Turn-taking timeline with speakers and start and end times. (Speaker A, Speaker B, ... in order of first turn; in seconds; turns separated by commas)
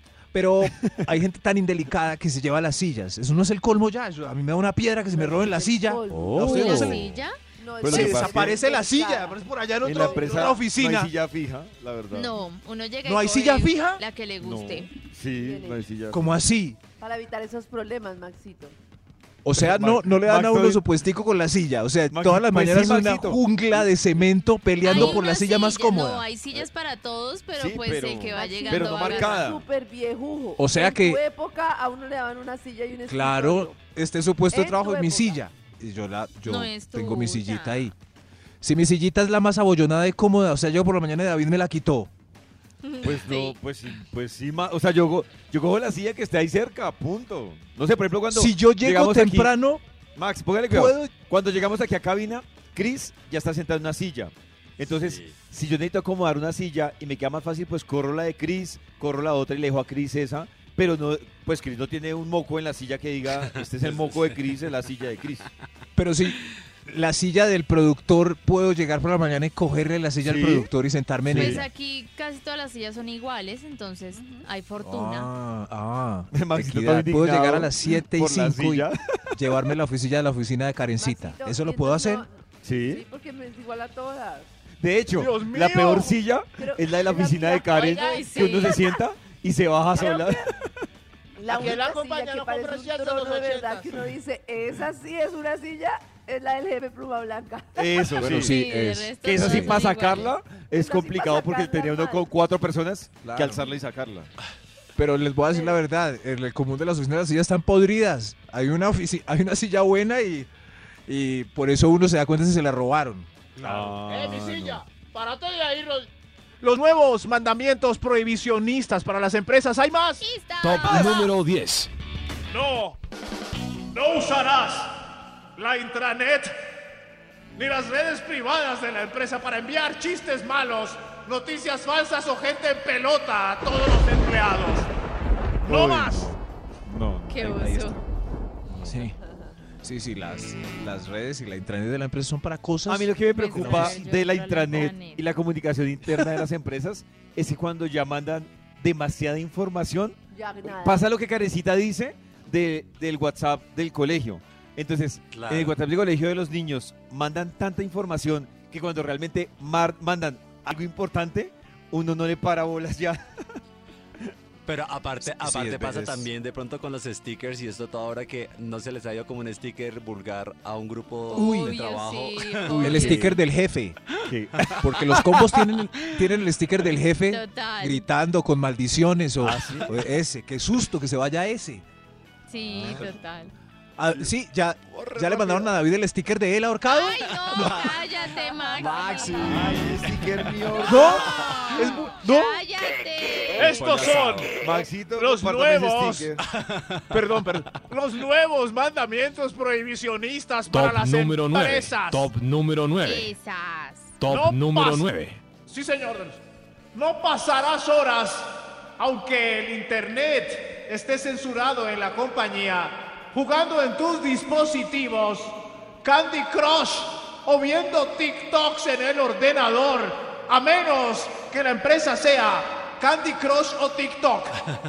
Speaker A: 0.3-7.2, Speaker B: 5.1-6.9, Speaker C: 6.4-7.0, Speaker D: 6.4-7.4, Speaker B: 7.6-10.5, Speaker C: 7.8-8.6, Speaker A: 7.9-11.1, Speaker C: 9.8-12.3, Speaker D: 12.1-15.0, Speaker A: 13.1-14.0, Speaker C: 14.4-16.3, Speaker B: 15.4-15.8, Speaker A: 16.1-16.8, Speaker B: 17.0-18.8, Speaker A: 19.4-26.3, Speaker C: 19.5-20.8, Speaker C: 22.1-24.0, Speaker D: 24.8-29.6, Speaker C: 24.9-25.2, Speaker C: 27.5-29.6, Speaker B: 28.3-33.8, Speaker A: 30.6-31.2, Speaker A: 33.1-37.9, Speaker B: 34.5-35.4, Speaker D: 36.5-37.9, Speaker A: 38.6-42.1, Speaker D: 42.8-43.6, Speaker C: 43.0-49.5, Speaker A: 48.3-49.8, Speaker C: 50.2-65.5, Speaker A: 50.7-51.1, Speaker E: 54.9-55.4, Speaker E: 63.5-64.6, Speaker A: 66.0-71.7, Speaker C: 70.2-70.7, Speaker C: 71.3-71.7, Speaker D: 71.4-75.3, Speaker B: 74.2-74.5, Speaker A: 74.8-82.3, Speaker C: 76.3-79.4, Speaker B: 81.0-84.5, Speaker C: 82.6-83.0, Speaker C: 84.8-90.7, Speaker F: 85.2-86.2, Speaker B: 86.6-89.0, Speaker G: 87.8-88.2, Speaker D: 88.0-88.8, Speaker B: 89.9-90.5, Speaker B: 91.4-98.2, Speaker G: 91.5-94.0, Speaker C: 97.8-98.6, Speaker A: 98.2-99.8, Speaker D: 98.4-100.4, Speaker C: 99.2-104.3, Speaker B: 100.8-102.3, Speaker A: 103.2-103.8, Speaker A: 105.0-110.5, Speaker A: 111.1-113.5, Speaker F: 113.6-114.0, Speaker C: 113.6-114.8, Speaker G: 114.0-116.1, Speaker F: 116.6-120.2, Speaker D: 120.2-121.3, Speaker H: 120.6-121.9, Speaker F: 122.5-123.0, Speaker F: 123.9-125.0, Speaker F: 125.6-126.6, Speaker F: 127.5-134.9, Speaker C: 135.6-137.5, Speaker F: 135.6-136.4, Speaker D: 137.3-138.0, Speaker A: 137.4-138.0, Speaker C: 138.7-139.1, Speaker A: 138.8-139.2, Speaker A: 139.8-144.0, Speaker C: 142.9-163.3, Speaker D: 143.2-145.3, Speaker B: 150.3-151.1, Speaker E: 155.3-155.8, Speaker E: 164.7-173.1, Speaker A: 165.2-166.3, Speaker D: 171.3-173.3, Speaker A: 171.3-171.8, Speaker C: 172.7-173.3, Speaker A: 172.8-174.0, Speaker C: 174.3-174.8, Speaker A: 174.7-181.8, Speaker D: 177.3-178.1, Speaker C: 179.4-179.9, Speaker D: 182.5-183.5, Speaker C: 182.7-183.1, Speaker A: 184.0-188.0, Speaker C: 184.9-185.8, Speaker D: 186.9-189.7, Speaker E: 188.8-190.4, Speaker C: 189.4-191.4, Speaker A: 190.8-192.6, Speaker D: 191.0-194.1, Speaker F: 191.9-192.2, Speaker F: 193.5-196.3, Speaker E: 193.6-194.6, Speaker C: 194.5-196.4, Speaker E: 196.5-197.1, Speaker A: 197.1-197.7, Speaker F: 197.1-202.3, Speaker H: 200.7-203.3, Speaker D: 203.0-204.2, Speaker H: 204.2-205.4, Speaker F: 204.2-206.4, Speaker F: 206.9-224.7